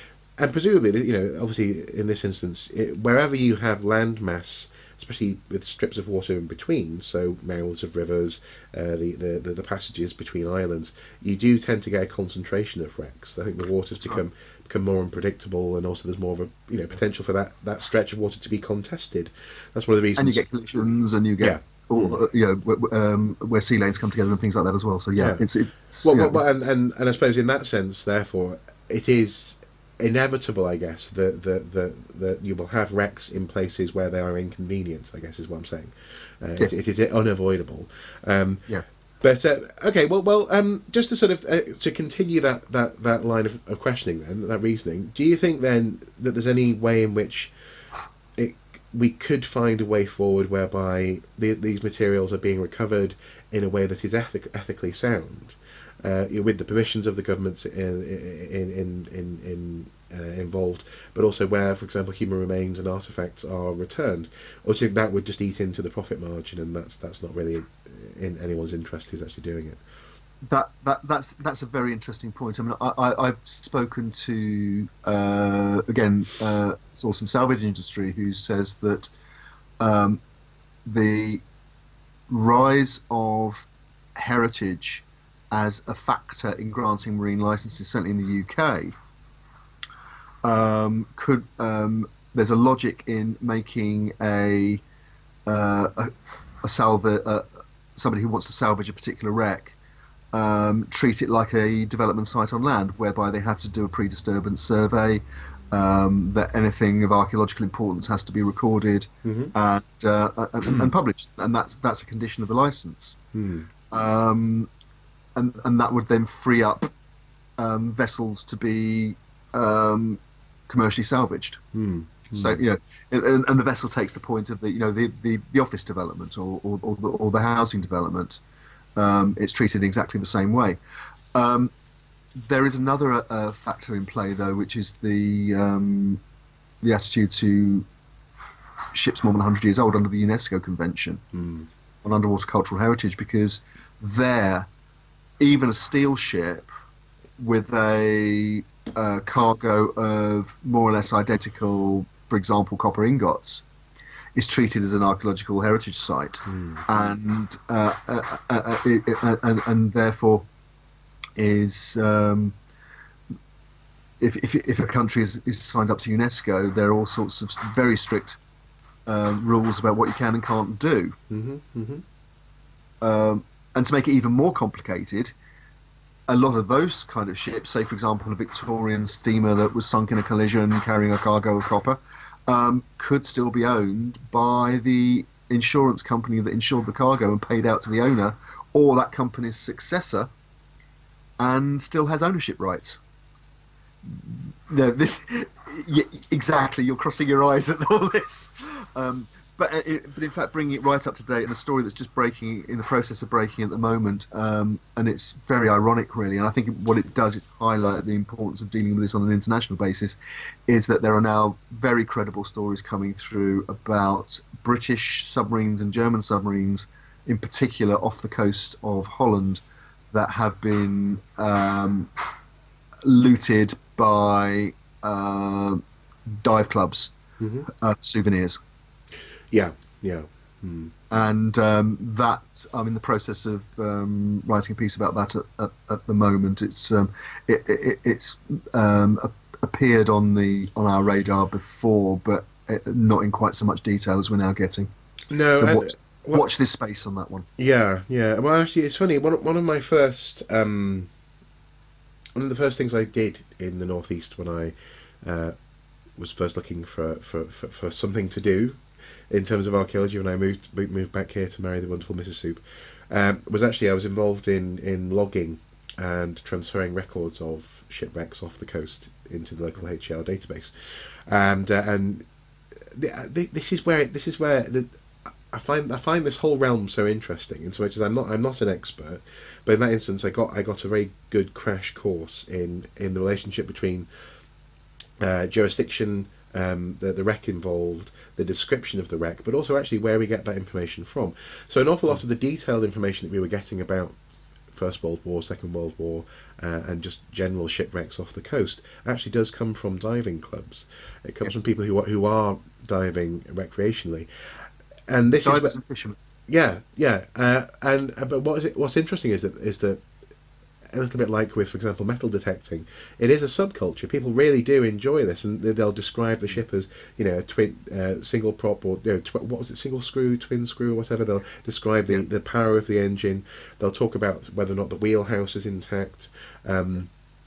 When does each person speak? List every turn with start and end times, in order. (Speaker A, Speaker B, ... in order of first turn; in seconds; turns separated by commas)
Speaker A: 0.4-20.4, Speaker B: 20.2-26.7, Speaker A: 21.4-22.2, Speaker A: 25.2-25.4, Speaker A: 26.0-38.6, Speaker A: 39.2-47.5, Speaker A: 48.4-69.8, Speaker B: 70.5-79.1, Speaker B: 79.8-80.2, Speaker B: 80.8-81.4, Speaker B: 82.3-88.9, Speaker B: 90.4-94.8, Speaker B: 95.5-96.1, Speaker B: 96.6-99.8, Speaker B: 100.3-113.2, Speaker A: 109.2-109.5, Speaker A: 113.3-113.7, Speaker B: 113.9-114.7, Speaker B: 115.3-116.9, Speaker B: 117.6-121.6, Speaker A: 121.7-122.6, Speaker B: 122.3-128.4, Speaker B: 128.9-130.8, Speaker B: 131.3-131.7, Speaker B: 132.4-136.2, Speaker B: 136.8-137.8, Speaker B: 138.9-141.2, Speaker A: 141.3-141.7, Speaker B: 142.0-144.7, Speaker B: 145.4-146.7, Speaker B: 147.4-153.6, Speaker B: 154.3-160.5, Speaker A: 156.5-156.8, Speaker B: 161.4-162.5, Speaker B: 164.2-168.4, Speaker B: 169.1-171.1, Speaker A: 171.3-172.0, Speaker B: 173.0-175.3, Speaker B: 176.3-190.3, Speaker B: 191.4-193.0, Speaker B: 194.0-222.1, Speaker B: 223.1-225.8, Speaker B: 226.4-227.1, Speaker A: 227.4-227.7, Speaker B: 227.7-228.6, Speaker A: 229.5-230.9, Speaker B: 231.1-244.9, Speaker A: 245.3-246.5, Speaker B: 245.5-247.4, Speaker A: 247.6-251.1, Speaker A: 252.3-255.5, Speaker A: 256.2-258.8, Speaker A: 259.3-270.7, Speaker A: 271.3-272.2, Speaker A: 272.9-275.0, Speaker A: 275.5-284.1, Speaker A: 285.2-294.1, Speaker A: 294.7-304.3, Speaker A: 305.1-305.7, Speaker B: 305.4-306.1, Speaker A: 306.5-310.0, Speaker A: 310.9-327.1